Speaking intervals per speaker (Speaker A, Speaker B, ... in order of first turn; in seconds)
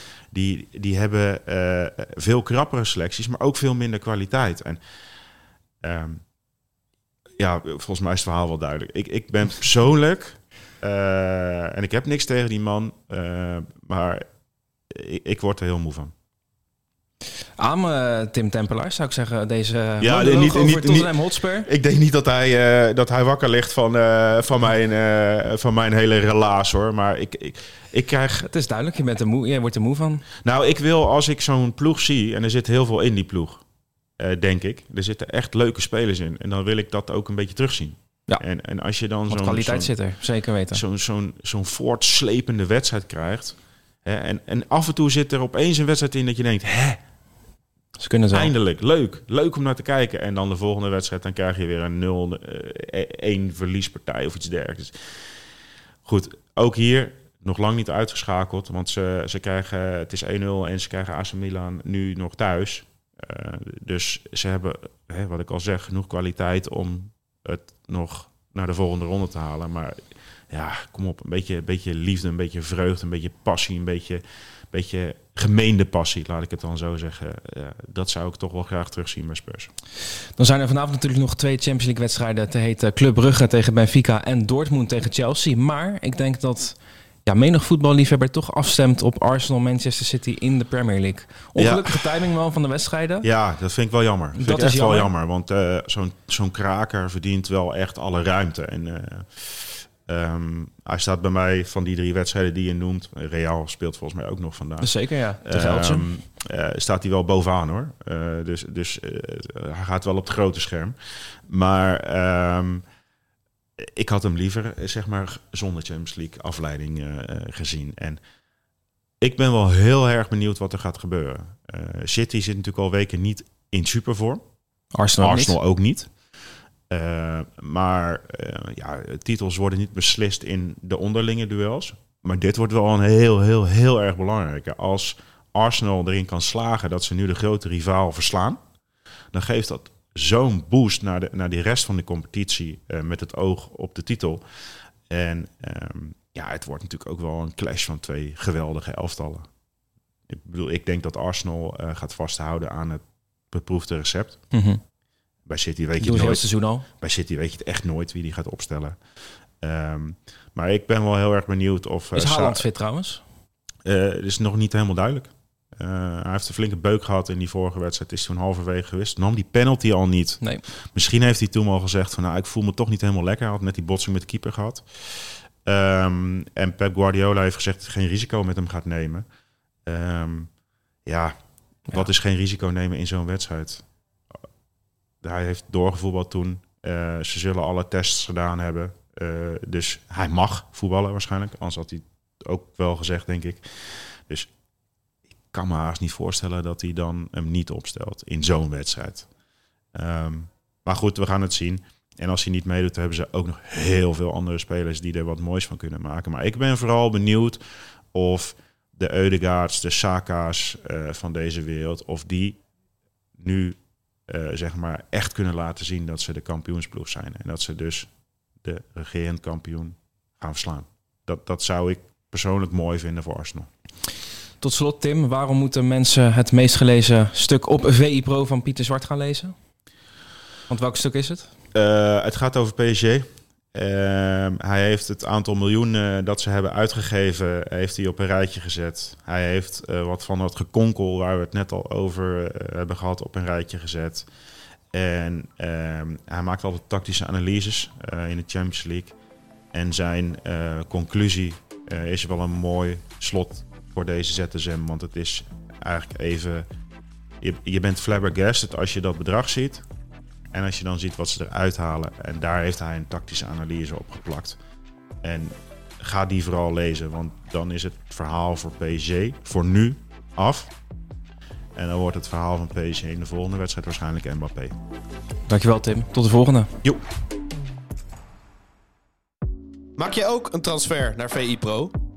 Speaker A: 0.3-4.8, 5.8-6.2, 7.4-14.2, 14.9-16.1, 20.0-28.5, 30.4-33.6, 34.2-39.9, 40.7-47.0, 48.3-55.0, 56.0-70.0, 70.5-79.7, 91.6-92.2, 93.2-99.5, 100.1-104.9, 105.4-111.0, 111.5-112.8, 113.8-118.2, 119.2-124.4, 125.2-126.1, 126.9-138.6, 139.3-144.4, 145.1-149.5, 150.3-154.4, 155.5-156.5, 157.0-159.0, 159.6-162.7, 163.8-170.4, 170.9-174.8, 175.7-179.2, 179.9-180.5, 181.1-181.3, 181.9-183.8, 185.2-193.6, 195.5-199.3, 199.9-207.6, 208.1-212.6, 213.4-213.8, 214.3-218.1, 218.6-223.7, 231.7-244.3, 244.9-249.1, 249.7-256.7, 257.4-259.8, 260.5-264.6, 265.2-270.7, 271.8-274.8
Speaker B: 17.6-21.7, 28.4-30.2, 39.3-40.8, 48.0-48.5, 80.4-93.3, 94.4-95.1, 104.8-106.1, 125.0-125.6, 154.5-154.8, 156.0-156.9, 162.1-163.2, 224.6-229.5, 230.7-231.5, 275.5-276.7
Speaker C: 280.0-281.9